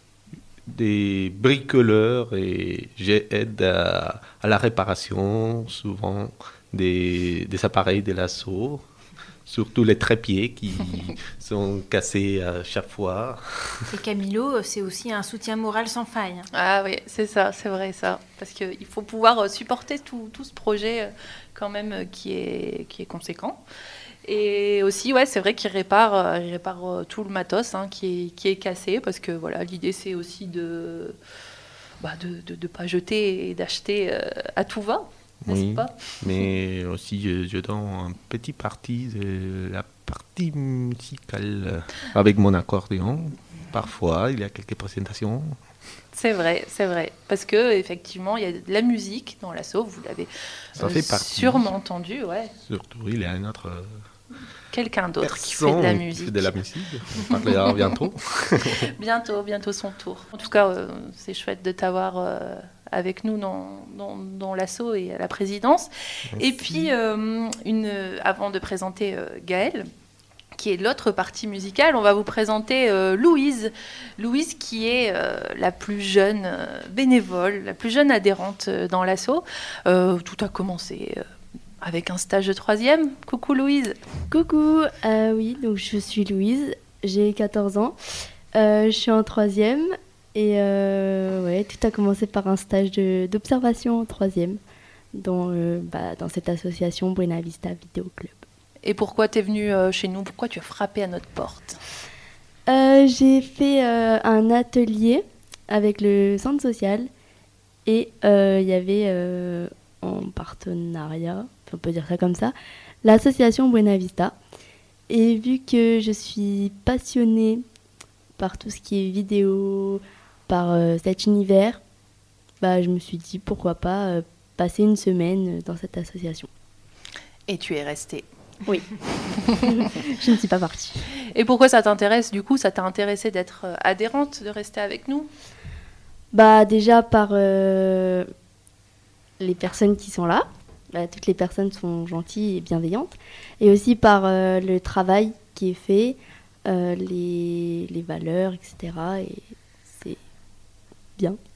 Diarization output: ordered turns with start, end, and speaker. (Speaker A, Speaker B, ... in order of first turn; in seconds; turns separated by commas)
Speaker A: 0.7-8.9, Speaker A: 9.5-13.8, Speaker B: 13.9-16.5, Speaker C: 16.5-23.6, Speaker C: 24.2-31.2, Speaker C: 32.0-36.4, Speaker A: 35.5-45.6, Speaker C: 46.1-52.5, Speaker A: 50.8-51.7, Speaker A: 52.6-54.0, Speaker C: 54.7-56.6, Speaker A: 55.2-58.9, Speaker C: 59.0-69.9, Speaker A: 66.3-66.9, Speaker C: 70.5-81.2, Speaker C: 81.8-84.0, Speaker D: 84.3-88.0, Speaker D: 88.5-94.6, Speaker D: 95.1-98.4, Speaker C: 98.8-101.8, Speaker D: 102.7-107.1, Speaker D: 107.9-114.4, Speaker D: 115.1-117.7, Speaker D: 118.4-121.8, Speaker D: 122.6-126.5, Speaker C: 127.5-128.3, Speaker D: 128.7-129.0, Speaker D: 129.5-131.1, Speaker C: 131.3-135.3, Speaker D: 136.3-138.3, Speaker D: 139.4-150.2